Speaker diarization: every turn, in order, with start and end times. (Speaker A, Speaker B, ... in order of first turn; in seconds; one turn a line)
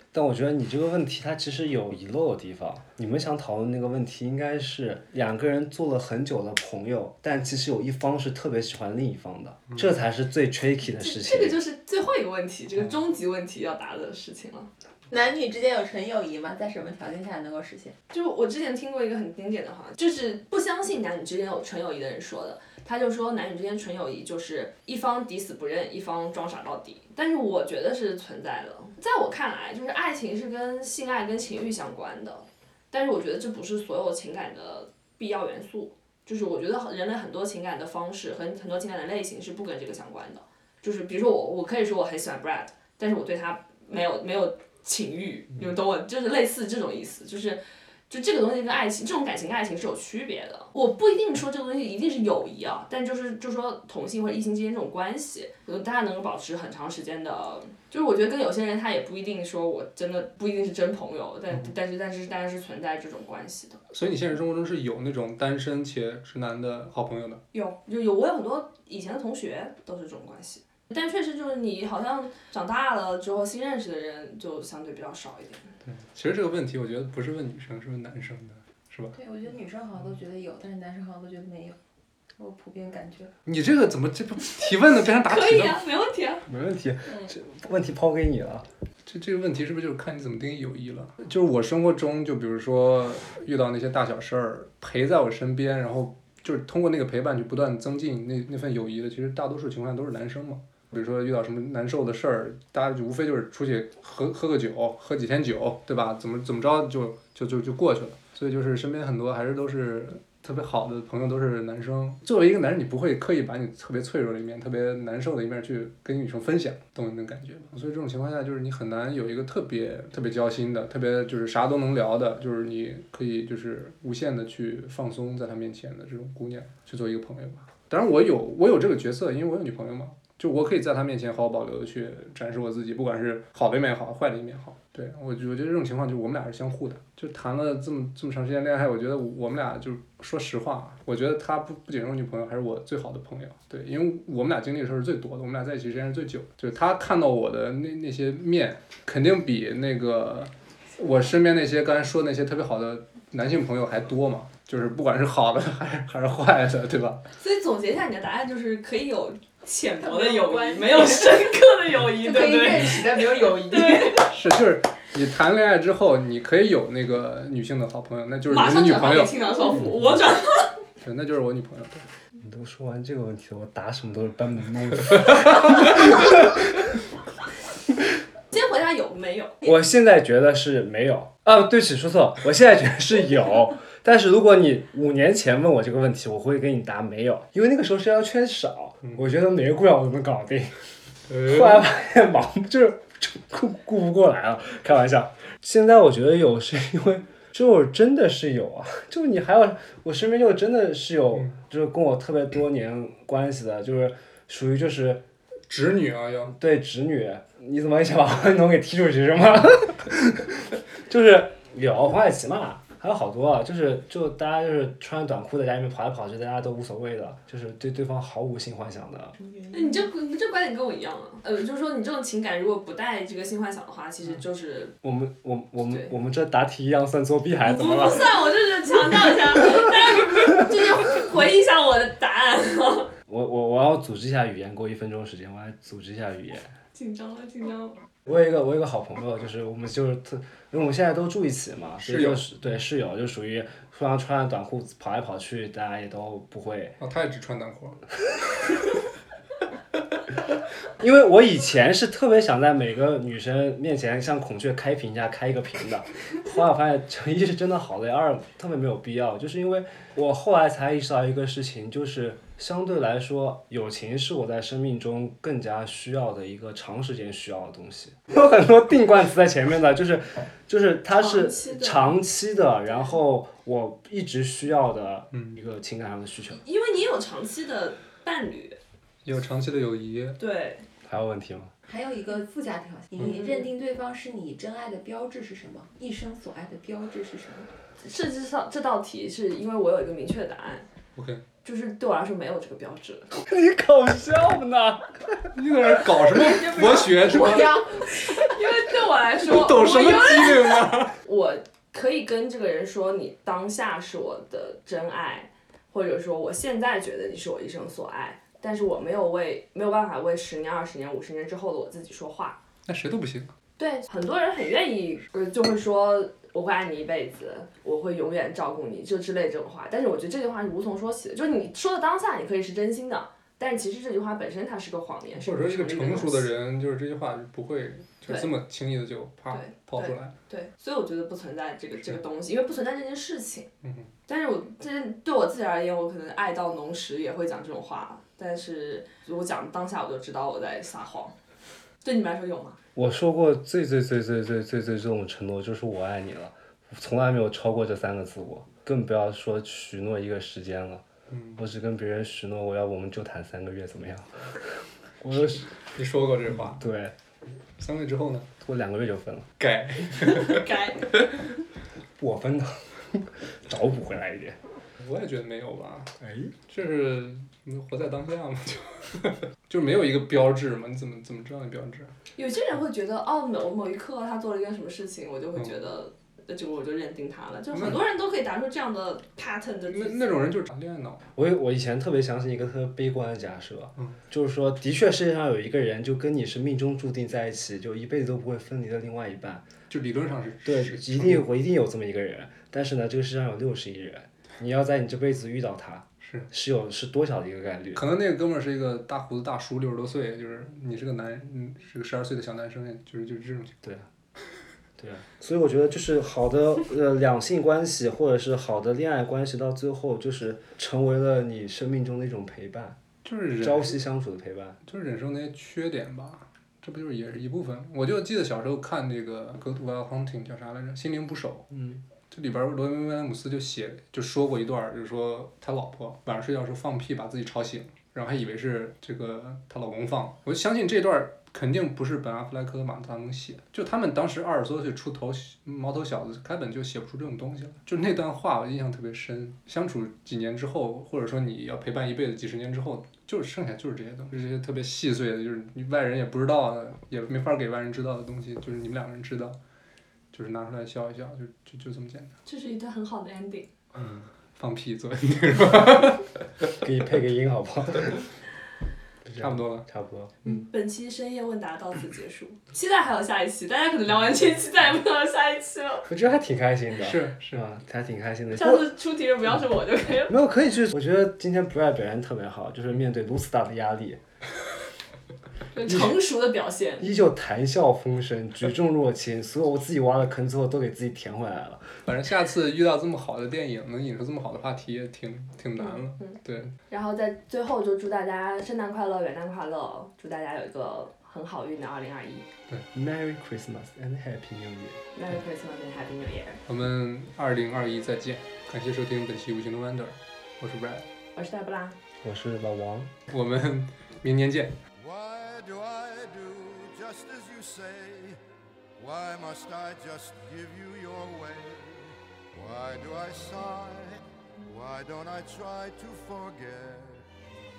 Speaker A: 0.1-11.6
Speaker B: 11.0-14.7
Speaker C: 15.1-17.9
Speaker B: 18.1-63.8
Speaker D: 63.9-67.4
Speaker B: 67.5-75.8
Speaker D: 75.8-79.2
Speaker C: 79.1-81.8
Speaker C: 82.4-83.3
Speaker D: 83.5-85.8
Speaker B: 85.2-86.5
Speaker A: 86.5-88.7
Speaker D: 89.1-157.2
Speaker B: 157.4-164.3
Speaker C: 160.0-161.6
Speaker C: 162.1-164.3
Speaker D: 164.3-169.4
Speaker B: 168.5-170.7
Speaker D: 171.0-172.1
Speaker A: 172.4-176.8
Speaker B: 178.5-179.7
Speaker A: 179.6-190.7
Speaker D: 191.3-191.8
Speaker A: 191.3-205.2
Speaker D: 205.7-206.5
Speaker A: 206.5-219.4
Speaker C: 219.4-220.1
Speaker B: 219.7-224.9
Speaker A: 225.0-228.4
Speaker B: 227.6-233.1
Speaker A: 233.3-236.7
Speaker B: 236.9-238.0
Speaker A: 238.3-247.0
Speaker D: 242.0-242.4
Speaker D: 247.0-248.0
Speaker A: 251.0-276.6
Speaker B: 271.1-272.2
Speaker D: 275.3-275.6
Speaker B: 276.5-278.8
Speaker D: 279.2-280.4
Speaker B: 280.4-280.9
Speaker A: 281.1-281.7
Speaker C: 281.9-287.7
Speaker B: 283.2-283.7
Speaker B: 288.0-290.9
Speaker D: 291.1-291.4
Speaker B: 291.6-293.3
Speaker A: 293.4-295.5
Speaker D: 295.5-297.9
Speaker C: 296.2-298.6
Speaker B: 298.1-312.6
Speaker D: 299.4-301.2
Speaker D: 312.9-313.5
Speaker B: 313.8-326.5
Speaker D: 325.4-330.4
Speaker B: 329.5-333.7
Speaker D: 333.8-334.1
Speaker B: 334.3-341.4
Speaker B: 342.0-342.8
Speaker A: 343.0-351.1
Speaker D: 351.3-351.6
Speaker A: 351.6-355.7
Speaker D: 355.8-356.8
Speaker A: 356.5-357.1
Speaker D: 357.8-358.5
Speaker A: 358.6-359.5
Speaker D: 359.6-361.3
Speaker B: 360.3-361.2
Speaker A: 362.2-364.6
Speaker D: 365.0-366.1
Speaker A: 366.2-366.5
Speaker D: 366.7-372.1
Speaker B: 372.4-380.5
Speaker D: 377.7-378.0
Speaker D: 379.9-381.2
Speaker A: 381.4-389.7
Speaker D: 389.9-391.5
Speaker A: 390.6-398.0
Speaker D: 396.2-396.5
Speaker D: 397.9-403.7
Speaker A: 403.8-404.1
Speaker A: 405.0-413.0
Speaker D: 413.2-413.9
Speaker A: 413.6-414.8
Speaker D: 414.9-421.7
Speaker A: 421.7-422.0
Speaker D: 422.3-449.6
Speaker D: 450.3-452.4
Speaker B: 452.5-453.7
Speaker D: 453.9-456.7
Speaker A: 456.8-458.3
Speaker A: 459.2-460.5
Speaker D: 459.4-459.9
Speaker B: 460.4-466.1
Speaker A: 466.1-468.9
Speaker D: 467.0-467.6
Speaker B: 468.6-470.4
Speaker A: 470.3-474.2
Speaker B: 475.7-477.1
Speaker A: 477.0-481.9
Speaker D: 482.1-486.8
Speaker B: 485.8-492.5
Speaker A: 492.9-495.0
Speaker B: 495.1-496.6
Speaker D: 496.7-501.1
Speaker B: 501.4-502.0
Speaker A: 502.2-503.1
Speaker D: 503.3-504.8
Speaker E: 505.0-508.4
Speaker E: 509.0-517.3